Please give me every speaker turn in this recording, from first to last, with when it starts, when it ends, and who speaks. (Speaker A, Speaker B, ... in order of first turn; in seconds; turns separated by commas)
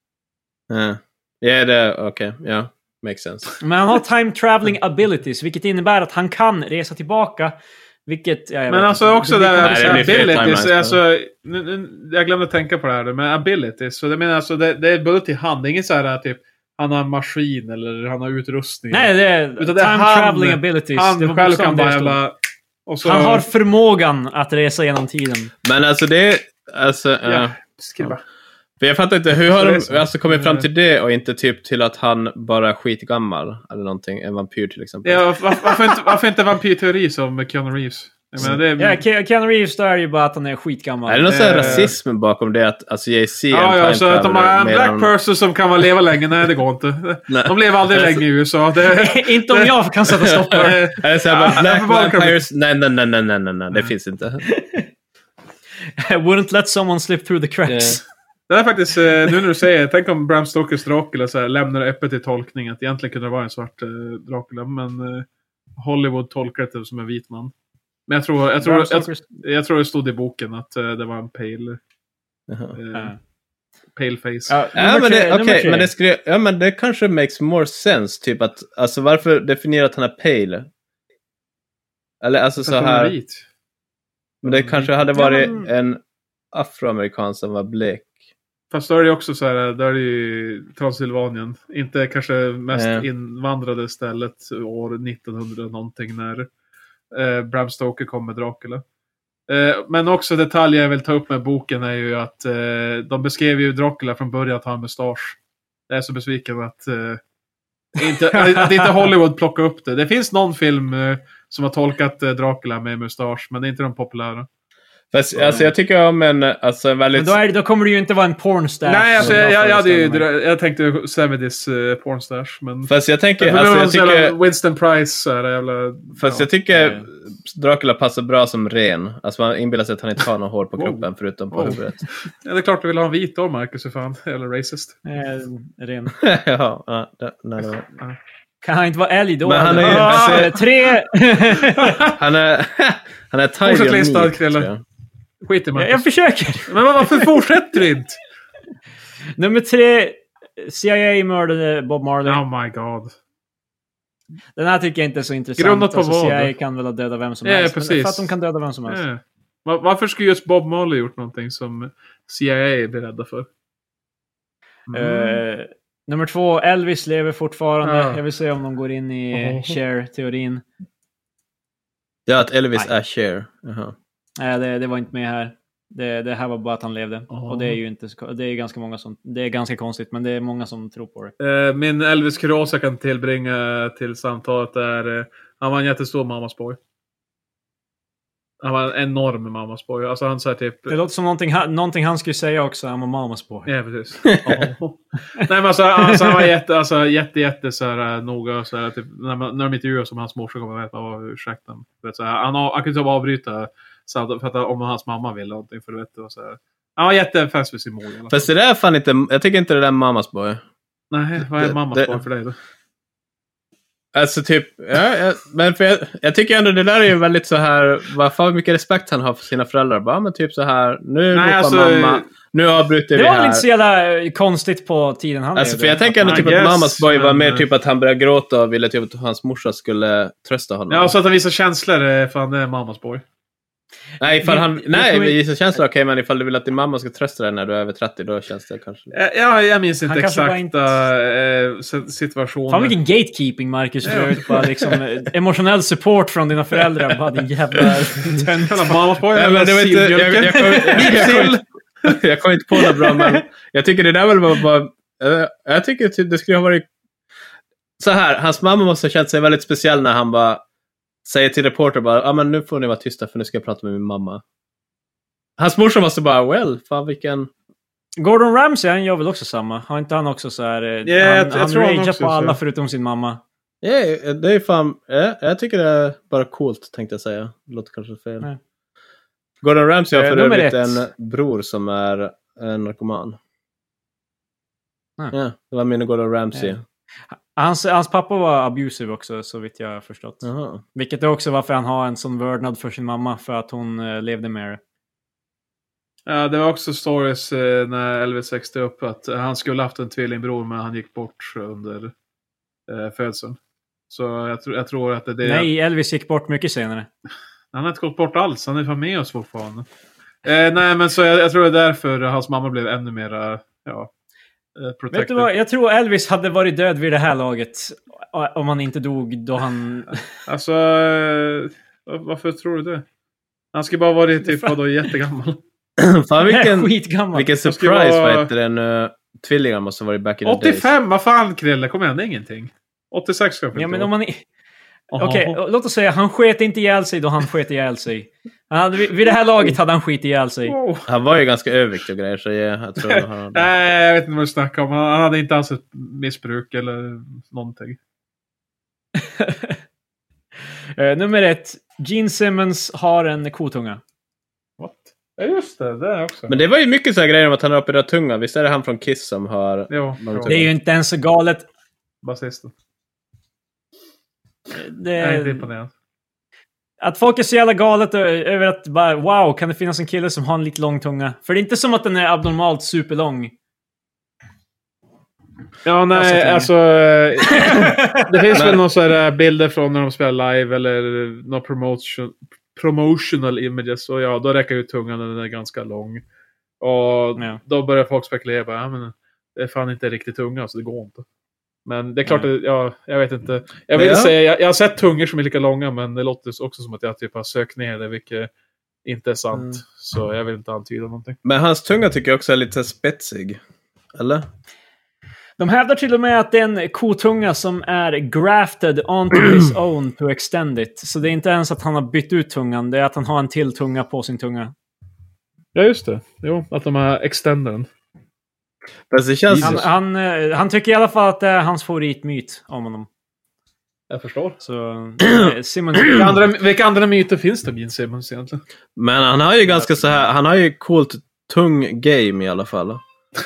Speaker A: 0.7-3.5, Speaker B: 3.6-10.6, Speaker C: 8.7-22.3, Speaker A: 9.6-11.0, Speaker B: 18.9-22.2, Speaker C: 22.9-23.4, Speaker B: 23.0-25.5, Speaker A: 25.6-28.1, Speaker C: 27.2-28.2, Speaker A: 28.8-35.2, Speaker C: 29.4-30.6, Speaker C: 35.0-39.0, Speaker B: 38.4-41.9, Speaker A: 41.0-45.1, Speaker C: 41.3-41.9, Speaker C: 43.5-49.7, Speaker A: 47.3-48.2, Speaker B: 48.8-50.8, Speaker A: 50.1-54.4, Speaker C: 50.5-52.4, Speaker B: 54.4-54.9, Speaker B: 56.0-58.0, Speaker A: 57.7-58.0, Speaker C: 58.5-65.2, Speaker C: 65.8-67.5, Speaker C: 68.1-71.8, Speaker B: 68.6-69.2, Speaker A: 72.5-72.8, Speaker C: 72.7-73.1, Speaker C: 74.0-74.6, Speaker B: 74.5-75.9, Speaker A: 74.7-80.7, Speaker A: 82.2-83.1, Speaker C: 82.6-83.4, Speaker C: 84.4-84.9, Speaker A: 84.4-86.0, Speaker B: 85.1-85.7, Speaker A: 86.5-88.1, Speaker C: 88.7-96.5, Speaker A: 92.7-93.1, Speaker C: 97.1-98.8, Speaker C: 99.5-105.4, Speaker C: 105.9-107.2, Speaker C: 108.0-114.5, Speaker B: 108.1-109.1, Speaker A: 115.1-117.4, Speaker C: 115.3-115.7, Speaker B: 117.1-120.2, Speaker C: 118.8-126.5, Speaker A: 122.9-124.3, Speaker A: 126.2-132.0, Speaker B: 126.7-127.0, Speaker C: 130.8-135.0, Speaker B: 135.1-136.1, Speaker A: 136.1-137.9, Speaker B: 138.6-142.0, Speaker A: 139.4-140.6, Speaker C: 139.8-140.6, Speaker C: 141.6-142.2, Speaker A: 142.1-144.8, Speaker C: 143.7-144.7, Speaker C: 145.4-146.1, Speaker B: 145.8-147.3, Speaker C: 146.7-148.2, Speaker B: 149.4-152.4, Speaker C: 152.2-153.1, Speaker B: 154.6-159.0, Speaker C: 155.6-156.5, Speaker C: 157.4-158.3, Speaker C: 158.9-163.5, Speaker C: 164.9-165.4, Speaker B: 164.9-170.6, Speaker C: 167.8-168.2, Speaker C: 169.3-169.8, Speaker A: 172.3-173.9, Speaker B: 174.4-181.3, Speaker C: 177.3-177.8, Speaker C: 181.4-186.8, Speaker C: 188.6-190.9, Speaker B: 190.9-193.7, Speaker C: 193.7-208.5, Speaker A: 194.2-194.7, Speaker B: 196.0-196.5, Speaker A: 208.3-210.6, Speaker C: 211.1-212.6, Speaker A: 211.5-212.2, Speaker A: 214.1-223.6, Speaker C: 221.3-222.3, Speaker B: 223.1-226.6, Speaker A: 225.6-231.1, Speaker C: 226.2-227.7, Speaker C: 230.9-233.2, Speaker A: 234.2-239.1, Speaker B: 234.4-235.4, Speaker C: 239.1-242.9, Speaker B: 240.0-240.9, Speaker B: 242.7-249.0, Speaker C: 244.0-244.6, Speaker C: 248.6-251.6, Speaker A: 249.3-256.9, Speaker B: 250.8-251.5, Speaker B: 252.9-253.4, Speaker A: 258.0-260.6, Speaker A: 261.2-264.4, Speaker A: 265.6-267.5, Speaker B: 268.2-273.4, Speaker C: 271.0-272.6, Speaker A: 273.8-278.5, Speaker A: 279.6-283.4, Speaker B: 280.1-281.0, Speaker A: 285.3-286.8, Speaker B: 287.6-294.8, Speaker A: 290.4-290.8, Speaker C: 296.2-302.1, Speaker C: 302.9-303.6, Speaker C: 304.1-305.7, Speaker B: 305.4-307.1, Speaker C: 307.7-309.9, Speaker C: 310.4-314.1, Speaker C: 314.8-315.5, Speaker B: 315.1-320.2, Speaker C: 320.5-323.0, Speaker C: 323.7-325.6, Speaker B: 324.4-324.8, Speaker A: 326.0-330.9, Speaker B: 326.4-327.5, Speaker C: 327.6-328.5, Speaker C: 330.4-334.1, Speaker B: 333.7-334.4, Speaker C: 335.1-335.6, Speaker B: 335.1-340.7, Speaker C: 340.6-341.1, Speaker A: 341.1-343.7, Speaker C: 343.0-348.0, Speaker B: 349.1-349.8, Speaker B: 351.0-354.0, Speaker C: 354.8-356.5, Speaker A: 356.5-360.7, Speaker C: 359.9-360.6, Speaker B: 360.4-361.6, Speaker C: 362.2-362.7, Speaker B: 364.7-365.7, Speaker C: 365.2-365.9, Speaker B: 367.0-373.5, Speaker C: 375.9-386.2, Speaker B: 376.1-376.7, Speaker B: 377.4-378.6, Speaker A: 378.5-378.8, Speaker C: 386.8-391.2, Speaker C: 391.9-398.5, Speaker A: 393.9-394.3, Speaker C: 399.0-401.4, Speaker A: 401.4-403.6, Speaker A: 404.1-404.4, Speaker B: 405.6-414.7, Speaker C: 415.7-417.9, Speaker A: 419.1-419.9, Speaker B: 419.5-423.1, Speaker C: 419.6-419.8, Speaker C: 424.1-424.6, Speaker B: 424.6-426.4, Speaker C: 426.0-428.6, Speaker A: 428.9-433.0